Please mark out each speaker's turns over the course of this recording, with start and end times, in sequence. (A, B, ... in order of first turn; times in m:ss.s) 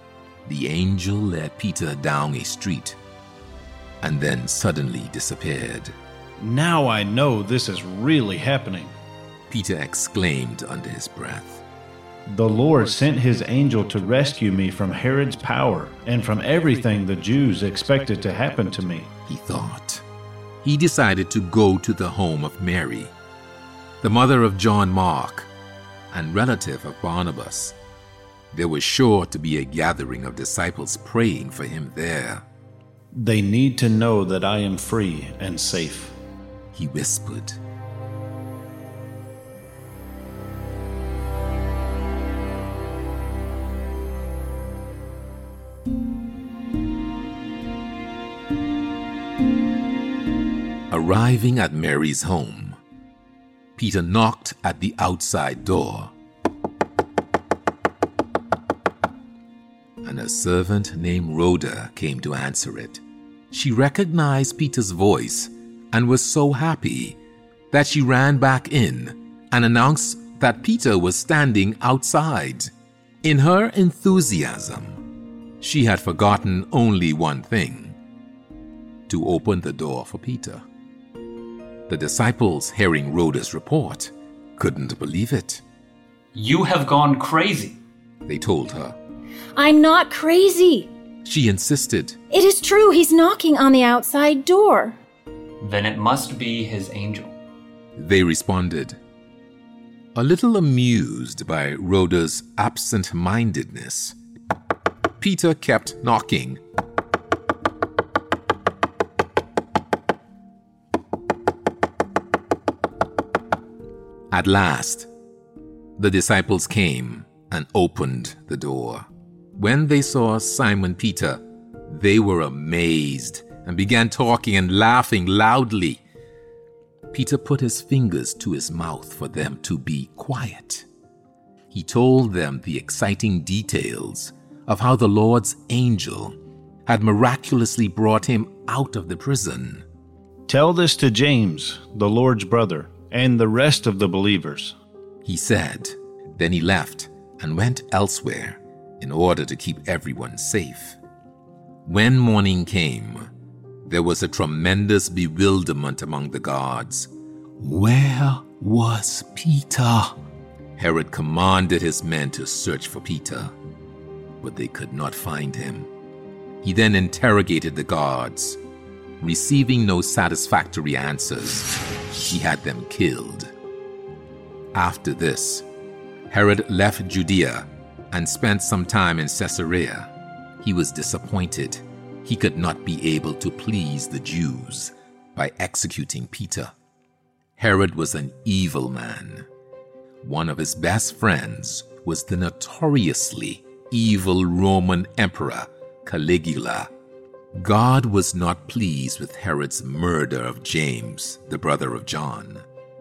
0:00.4-0:03.0 A
0:04.0-0:06.0 A
0:06.4-0:08.9 B
0:09.5-0:11.6 A
0:12.3-0:19.1 B
0:19.3-0:20.0 A
0:20.6-0:23.1 A
0:24.0-0:25.5 A
0:26.1-0:27.8 A
0:28.5-0:32.4 A
0:33.1-0:36.2 B
0:36.7-0:37.6 A
0:50.9-0:52.8 A
0:53.8-0:56.1 A
1:00.0-1:07.2 A
1:07.7-1:12.7 A
1:13.2-1:15.0 A
1:15.6-1:18.0 A
1:19.1-1:20.6 A
1:21.9-1:25.6 A
1:26.3-1:27.8 C
1:28.3-1:29.0 A
1:29.6-1:30.9 D
1:31.2-1:32.2 A
1:32.3-1:35.0 D
1:35.6-1:37.3 C
1:38.0-1:39.0 A
1:40.2-1:44.2 A
1:45.2-1:46.6 A
1:54.3-1:55.1 A
1:56.0-1:59.1 A
1:59.6-2:06.0 A
2:07.1-2:10.9 A
2:11.7-2:16.4 A
2:16.9-2:19.8 A
2:20.5-2:24.8 B
2:25.2-2:31.0 A
2:31.9-2:33.3 A
2:33.8-2:40.2 A
2:40.8-2:43.5 A
2:44.4-2:45.9 A
2:46.6-2:48.6 A
2:49.2-2:51.7 A
2:52.3-2:53.5 A
2:54.7-2:55.6 A
2:56.3-3:06.7 A
3:07.6-3:09.5 A
3:10.2-3:16.9 A
3:17.6-3:22.6 A